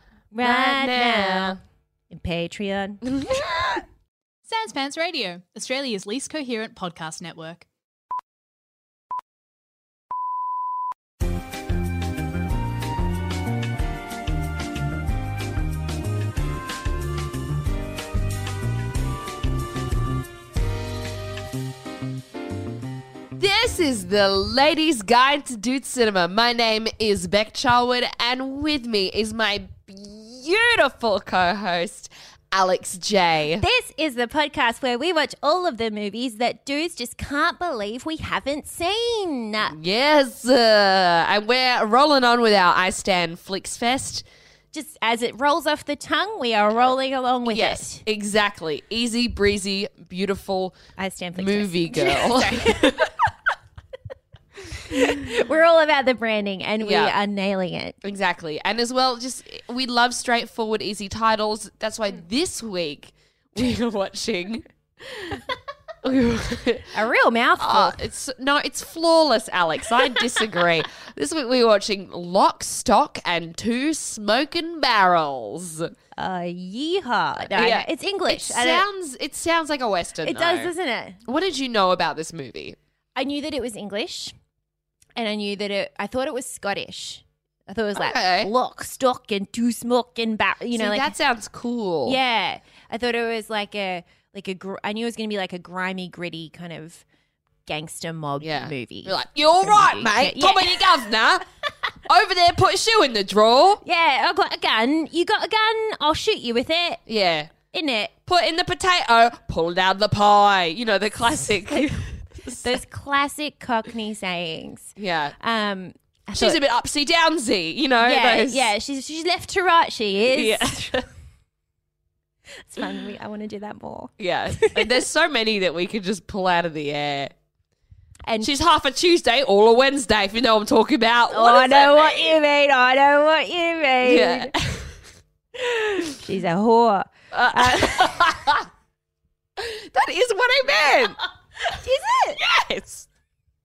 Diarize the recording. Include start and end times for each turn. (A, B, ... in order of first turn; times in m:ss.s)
0:00.3-0:01.6 A
0:00.4-0:01.6 B
0:02.1-0:03.5 A
0:03.0-0:03.8 B
0:04.5-0:07.7 C
0:23.4-0:33.6 B
0:33.6-0:39.8 A
0:39.7-0:44.2 B
0:44.7-0:48.0 A
0:47.5-0:50.8 B
0:51.0-0:53.1 A
0:51.4-0:53.2 B
0:54.8-0:58.0 A
0:54.9-0:55.2 B
0:56.8-0:57.1 B
0:58.0-1:05.5 B
1:06.0-1:06.9 B
1:06.9-1:08.0 A
1:07.6-1:15.9 B
1:10.0-1:10.6 A
1:16.2-1:18.9 A
1:17.5-1:20.7 B
1:20.2-1:21.2 A
1:21.3-1:22.8 B
1:23.2-1:24.3 A
1:25.2-1:31.1 A
1:28.0-1:28.5 B
1:30.7-1:32.2 B
1:32.0-1:37.0 A
1:37.7-1:41.2 A
1:38.4-1:41.4 B
1:42.1-1:43.8 B
1:43.8-1:47.0 A
1:47.1-1:47.5 B
1:47.7-1:48.2 A
1:48.3-1:52.8 B
1:52.6-1:56.6 A
1:55.0-1:55.4 B
1:56.4-1:58.7 B
1:58.0-2:01.0 A
2:00.3-2:01.1 B
2:02.6-2:05.0 A
2:04.2-2:07.3 B
2:08.3-2:08.5 A
2:08.4-2:12.3 B
2:11.3-2:14.5 A
2:14.0-2:14.9 B
2:15.6-2:18.5 A
2:17.3-2:18.7 B
2:19.6-2:21.8 B
2:21.6-2:22.4 A
2:22.4-2:23.1 B